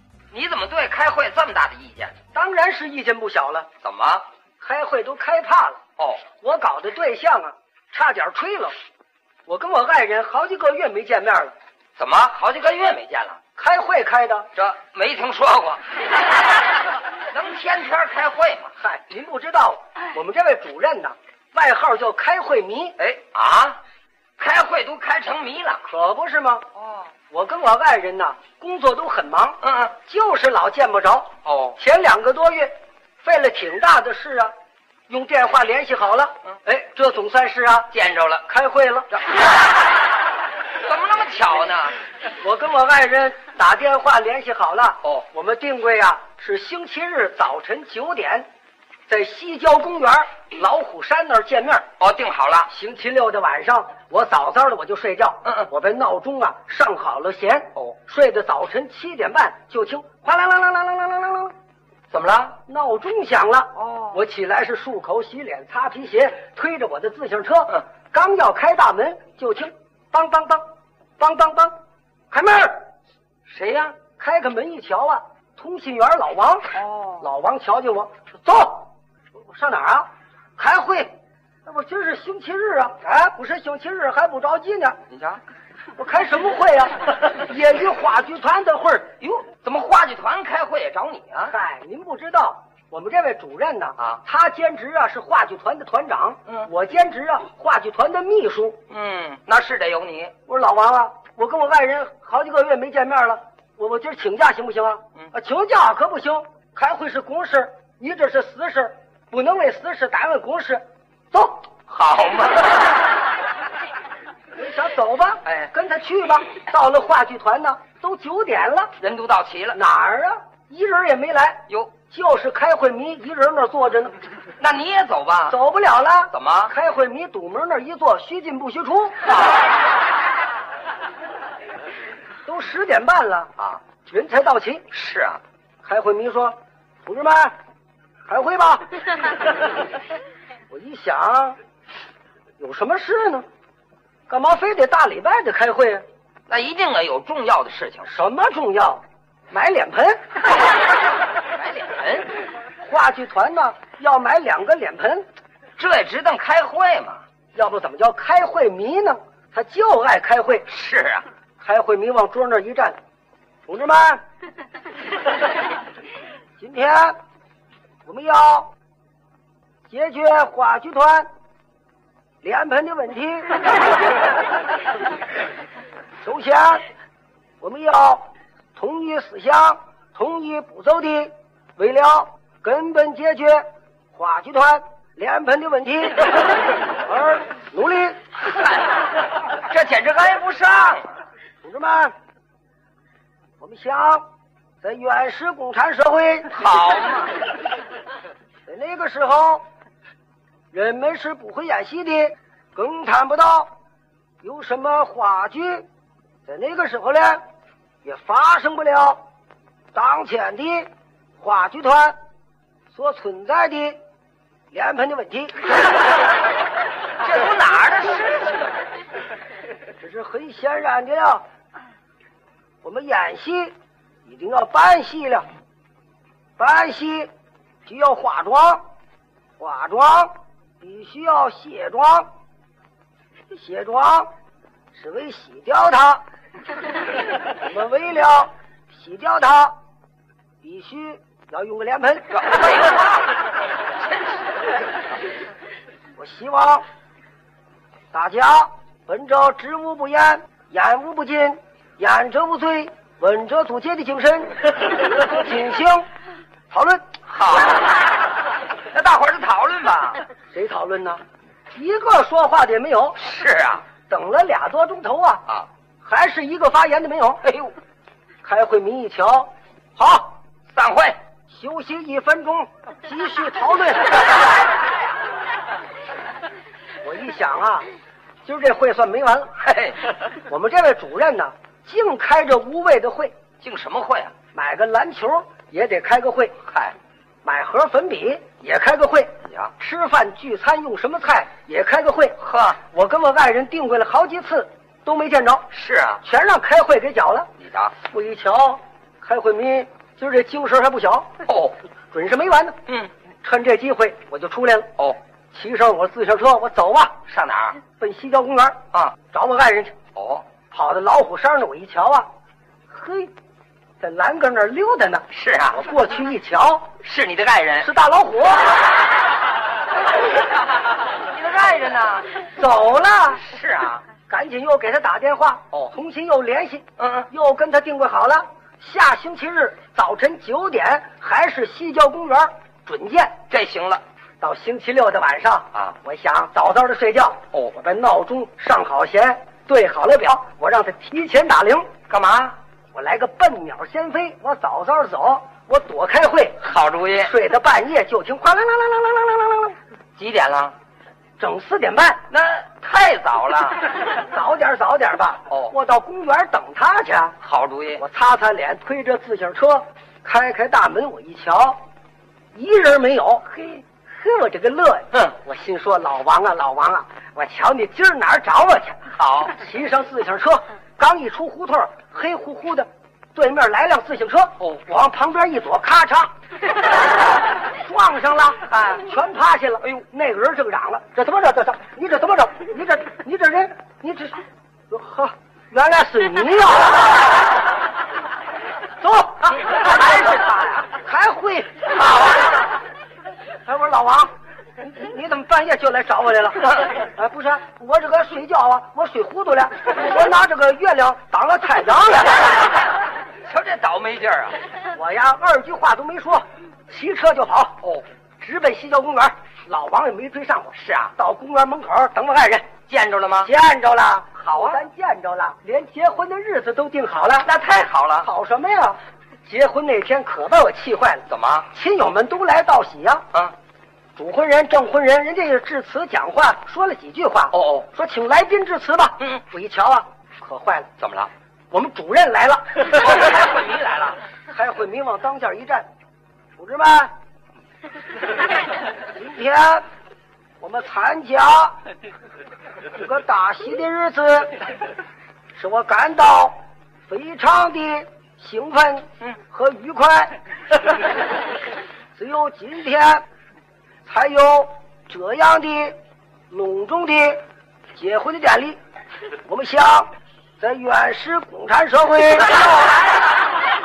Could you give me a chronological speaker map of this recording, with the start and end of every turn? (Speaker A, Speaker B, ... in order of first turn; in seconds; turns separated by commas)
Speaker A: 0.3-2.1, Speaker B: 2.3-3.7, Speaker A: 3.8-4.2, Speaker B: 4.6-5.8, Speaker A: 6.0-6.2, Speaker B: 6.4-8.7, Speaker B: 9.4-11.5, Speaker A: 12.0-13.4, Speaker B: 13.6-14.5, Speaker A: 14.5-15.8, Speaker A: 17.3-18.7, Speaker B: 18.8-22.9, Speaker A: 23.0-23.8, Speaker A: 24.4-25.8, Speaker B: 25.8-26.6, Speaker A: 26.8-27.1, Speaker B: 27.3-34.5, Speaker A: 29.6-29.9, Speaker A: 31.4-31.8, Speaker B: 35.1-37.9, Speaker A: 37.9-38.4, Speaker B: 38.5-39.2, Speaker A: 40.8-42.0, Speaker B: 42.4-48.5, Speaker B: 49.1-51.9, Speaker A: 52.0-52.7, Speaker B: 52.7-61.5, Speaker A: 55.4-55.7, Speaker A: 62.1-62.6, Speaker B: 62.7-70.6, Speaker A: 63.7-64.2, Speaker B: 71.2-71.8, Speaker B: 72.3-72.8, Speaker A: 73.5-74.0, Speaker B: 74.2-81.1, Speaker A: 76.7-77.2, Speaker B: 81.6-85.0, Speaker A: 85.1-85.4, Speaker B: 86.0-89.1, Speaker A: 89.2-91.5, Speaker B: 91.5-98.8, Speaker A: 98.9-100.3, Speaker B: 100.5-111.6, Speaker A: 111.9-112.9, Speaker B: 114.5-118.9, Speaker A: 115.4-115.7, Speaker A: 119.0-119.8, Speaker B: 119.7-124.2, Speaker A: 124.6-125.6, Speaker B: 125.5-129.2, Speaker A: 126.3-126.7, Speaker A: 129.3-129.6, Speaker B: 132.4-133.5, Speaker B: 134.1-134.8, Speaker A: 134.9-135.4, Speaker B: 135.8-137.5, Speaker B: 138.3-139.3, Speaker B: 140.7-141.6, Speaker B: 142.6-143.4, Speaker B: 144.3-146.0, Speaker A: 146.5-148.1, Speaker B: 148.0-150.3, Speaker A: 151.5-152.3, Speaker B: 152.8-155.2, Speaker A: 155.8-157.2, Speaker B: 157.5-160.7, Speaker A: 160.7-161.2, Speaker B: 161.6-163.0, Speaker B: 163.7-164.2, Speaker B: 166.6-167.2, Speaker B: 168.0-168.7, Speaker B: 169.9-171.3, Speaker B: 172.4-173.7, Speaker B: 176.2-176.8, Speaker B: 177.6-188.2, Speaker A: 189.6-191.2, Speaker B: 191.6-192.1, Speaker B: 193.6-194.2, Speaker B: 194.8-196.5, Speaker A: 196.5-197.3, Speaker B: 198.7-199.6, Speaker B: 200.7-203.7, Speaker B: 204.4-205.9, Speaker B: 206.4-207.4, Speaker B: 208.0-209.2, Speaker B: 209.9-212.2, Speaker B: 212.9-214.0, Speaker B: 214.7-216.0, Speaker A: 217.2-218.8, Speaker B: 220.0-221.4, Speaker B: 222.8-225.5, Speaker B: 226.6-227.3, Speaker B: 227.8-228.8, Speaker B: 229.6-232.3, Speaker B: 233.5-234.3, Speaker B: 234.9-236.2, Speaker B: 237.5-239.8, Speaker B: 240.6-242.6, Speaker A: 242.3-243.4, Speaker B: 246.2-246.8, Speaker B: 248.1-256.1, Speaker B: 256.7-257.0, Speaker A: 257.2-258.1, Speaker A: 258.9-260.3, Speaker B: 260.5-261.2, Speaker B: 261.7-263.2, Speaker A: 263.1-263.8, Speaker B: 264.1-265.4, Speaker B: 266.0-267.4, Speaker A: 267.4-267.7, Speaker B: 268.4-270.4, Speaker A: 270.7-271.2, Speaker B: 271.5-274.5, Speaker B: 277.0-277.9, Speaker B: 278.4-279.5, Speaker A: 279.6-280.1, Speaker B: 280.4-283.3, Speaker A: 283.6-284.3, Speaker B: 284.5-286.6, Speaker A: 286.7-286.9, Speaker B: 287.4-292.4, Speaker A: 289.4-289.7, Speaker A: 292.4-292.8, Speaker B: 292.9-295.6, Speaker A: 295.7-296.2, Speaker B: 296.2-297.5, Speaker A: 297.6-297.9, Speaker B: 298.0-301.3, Speaker A: 301.4-301.7, Speaker B: 302.1-302.8, Speaker B: 303.4-304.9, Speaker B: 305.5-307.1, Speaker A: 307.2-307.8, Speaker B: 307.9-308.8, Speaker B: 309.3-309.9, Speaker A: 310.1-310.4, Speaker B: 310.7-312.3, Speaker B: 312.9-313.3, Speaker B: 314.0-316.9, Speaker A: 315.3-315.8, Speaker A: 317.0-317.9, Speaker B: 317.8-318.9, Speaker A: 321.1-322.3, Speaker B: 322.6-323.4, Speaker A: 323.4-324.0, Speaker B: 324.3-333.4, Speaker A: 327.0-327.3, Speaker A: 333.5-334.0, Speaker B: 334.4-341.9, Speaker A: 342.1-342.6, Speaker B: 342.9-346.6, Speaker A: 346.6-347.3, Speaker B: 347.2-349.8, Speaker A: 350.2-350.7, Speaker B: 351.4-352.2, Speaker A: 352.3-353.9, Speaker B: 354.1-357.4, Speaker A: 357.4-358.0, Speaker B: 358.0-361.8, Speaker B: 362.5-369.0, Speaker A: 369.1-369.6, Speaker B: 369.6-376.3, Speaker B: 377.6-387.2, Speaker A: 378.7-379.0, Speaker B: 389.0-392.3, Speaker A: 389.7-390.6, Speaker B: 393.6-402.6, Speaker A: 403.4-404.6, Speaker B: 404.9-407.8, Speaker B: 408.4-412.7, Speaker A: 410.7-411.1, Speaker A: 412.9-413.5, Speaker B: 413.4-417.5, Speaker A: 414.3-414.8, Speaker A: 417.4-418.3, Speaker B: 418.2-423.2, Speaker A: 421.3-421.7, Speaker B: 424.1-430.9, Speaker A: 427.5-427.9, Speaker A: 431.0-431.3, Speaker B: 431.7-433.1, Speaker A: 432.9-434.2, Speaker B: 434.5-435.9, Speaker B: 436.6-437.1, Speaker B: 439.1-439.9, Speaker B: 440.6-441.8, Speaker B: 442.9-444.6, Speaker B: 445.6-446.6, Speaker B: 447.1-450.4, Speaker B: 452.1-453.2, Speaker B: 454.0-456.0, Speaker B: 456.5-457.4, Speaker B: 457.9-458.8, Speaker B: 459.4-462.7